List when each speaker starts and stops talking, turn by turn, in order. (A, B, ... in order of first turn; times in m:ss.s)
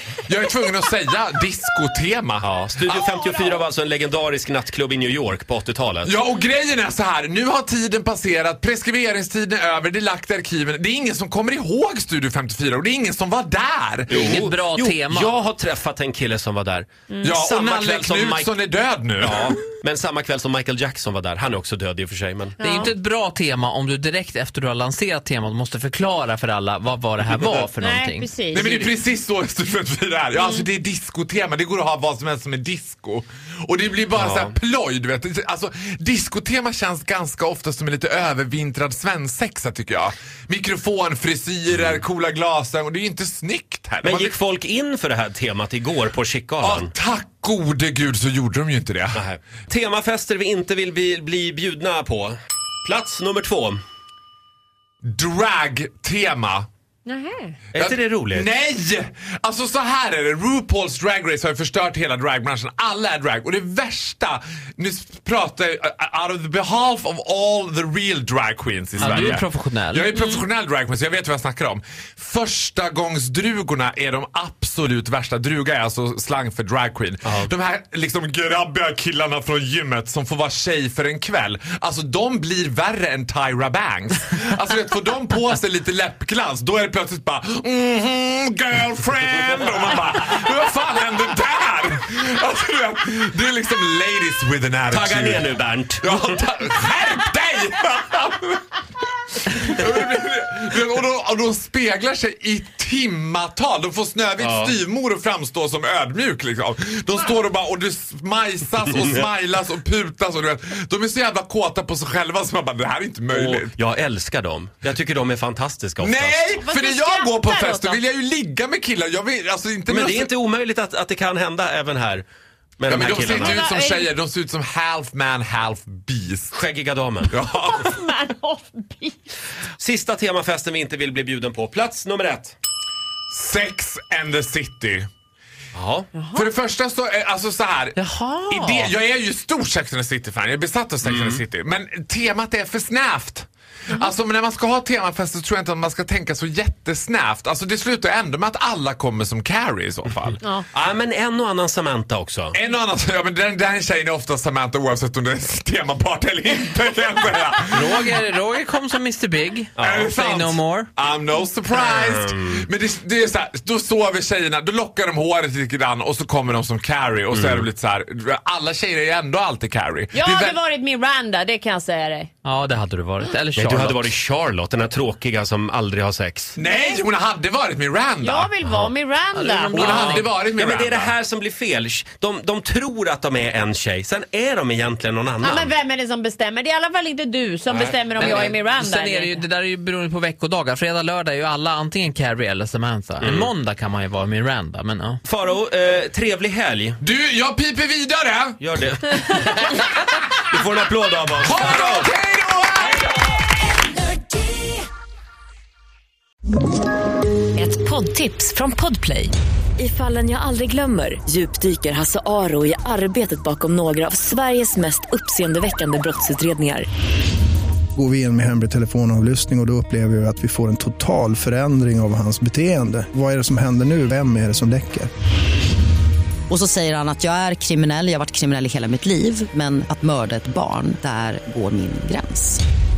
0:00.2-0:03.2 A
0:02.4-0:06.1 B
0:06.0-0:14.4 A
0:14.1-0:18.5 B
0:14.1-0:15.3 C
0:17.2-0:19.6 A
0:19.2-0:22.6 B
0:22.6-0:28.9 C
0:22.6-0:22.9 D
0:27.8-0:28.6 D
0:28.5-0:44.3 A
0:30.4-0:30.6 D
0:34.1-0:34.5 B
0:41.7-0:42.0 B
0:44.0-0:46.9 B
0:46.6-0:49.2 A
0:49.1-0:53.8 B
0:55.0-0:56.7 A
0:57.1-0:57.6 D
0:57.7-0:58.5 B
0:57.7-1:35.5 A
1:09.0-1:10.1 C
1:34.9-1:36.4 B
1:36.0-1:38.8 A
1:39.4-1:53.8 A
1:44.4-1:44.7 B
1:53.3-1:56.4 B
1:56.0-2:00.3 A
1:56.6-1:58.0 D
1:59.9-2:02.2 B
2:02.8-2:03.6 B
2:02.8-2:06.6 A
2:03.4-2:04.1 D
2:06.5-2:07.4 B
2:07.3-2:07.9 A
2:07.8-2:09.2 D
2:09.8-2:12.6 B
2:13.3-2:15.1 A
2:15.7-2:16.1 B
2:16.3-2:18.0 A
2:18.0-2:18.9 C
2:18.5-2:30.4 A
2:21.0-2:21.4 B
2:30.7-2:32.6 B
2:32.5-2:38.1 A
2:37.7-2:40.9 C
2:39.8-2:40.1 B
2:39.8-2:50.6 A
2:41.7-2:42.6 B
2:47.3-2:47.6 B
2:50.1-2:52.3 D
2:52.4-2:54.1 C
2:53.6-2:56.6 B
2:56.6-2:58.5 A
2:56.7-2:57.0 D
2:58.2-2:59.8 D
2:59.3-3:00.3 C
2:59.7-3:01.1 A
2:59.8-3:05.7 B
3:05.4-3:09.4 D
3:08.2-3:08.5 B
3:08.2-3:15.2 C
3:13.2-3:13.5 B
3:15.2-3:17.0 B
3:17.0-3:18.6 A
3:18.6-3:19.8 B
3:20.4-3:22.1 B
3:21.4-3:23.0 A
3:27.6-3:36.9 E
3:38.0-3:45.1 F
3:46.5-3:52.6 G